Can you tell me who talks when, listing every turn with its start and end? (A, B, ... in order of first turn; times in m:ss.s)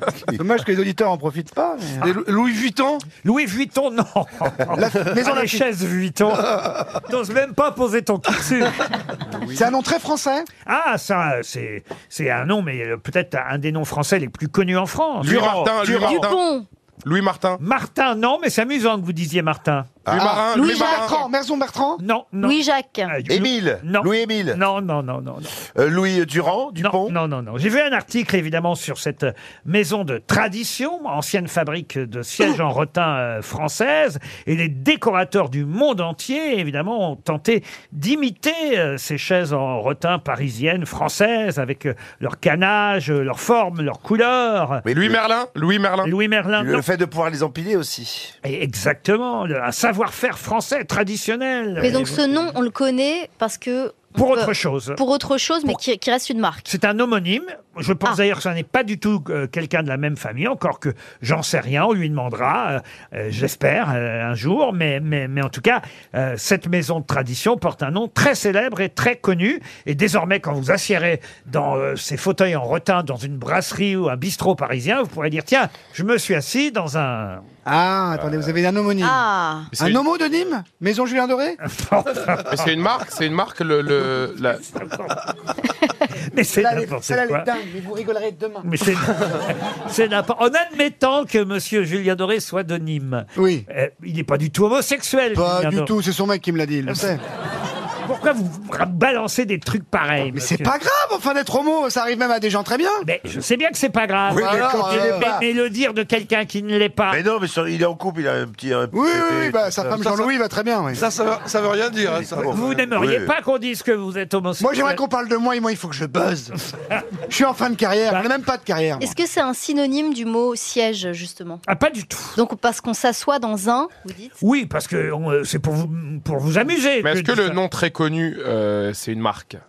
0:00.3-0:02.1 A
0:02.0-0:03.0 B
0:03.2-0:06.5 C
0:04.7-0:05.6 A
0:07.0-0:08.8 C
0:09.5-0:10.5 A
0:10.6-0:15.5 C
0:15.2-0:16.4 D
0:15.2-0:16.2 E
0:15.8-0:16.6 F
0:17.0-0:17.6 D
0:17.6-0:19.9 C
0:20.0-0:20.5 E
0:20.1-0:21.1 D
0:20.5-0:21.3 F
0:20.6-0:22.0 A
0:22.0-0:25.5 C
0:22.4-0:23.1 F
0:23.3-0:24.6 E
0:25.7-0:27.1 E
0:26.8-0:44.8 C
0:44.8-0:45.2 E
0:44.9-0:46.1 D
0:46.0-0:46.8 C
0:46.6-0:48.3 E
0:48.4-0:52.2 C
0:51.8-0:56.7 F
0:54.1-0:55.0 C
0:56.6-1:17.4 C
1:17.6-1:19.2 A
1:19.0-1:19.7 F
1:19.8-1:20.0 D
1:19.8-1:21.6 A
1:21.6-1:22.7 C
1:22.5-1:24.6 D
1:24.6-1:25.2 C
1:26.3-1:27.5 C
1:26.5-1:28.6 A
1:28.6-1:35.9 C
1:33.4-1:33.6 A
1:35.3-1:37.2 A
1:38.0-1:40.7 C
1:40.3-1:43.0 A
1:43.0-1:47.2 C
1:44.3-1:45.4 E
1:44.3-1:45.3 A
1:47.1-1:50.2 E
1:48.9-1:51.0 A
1:50.9-1:52.6 B
1:52.1-1:53.3 E
1:52.5-1:55.0 C
1:54.6-1:56.5 A
1:57.3-1:59.2 A
1:59.0-2:01.6 F
2:01.7-2:02.4 C
2:02.3-2:04.4 F
2:04.4-2:07.6 C
2:07.0-2:09.6 D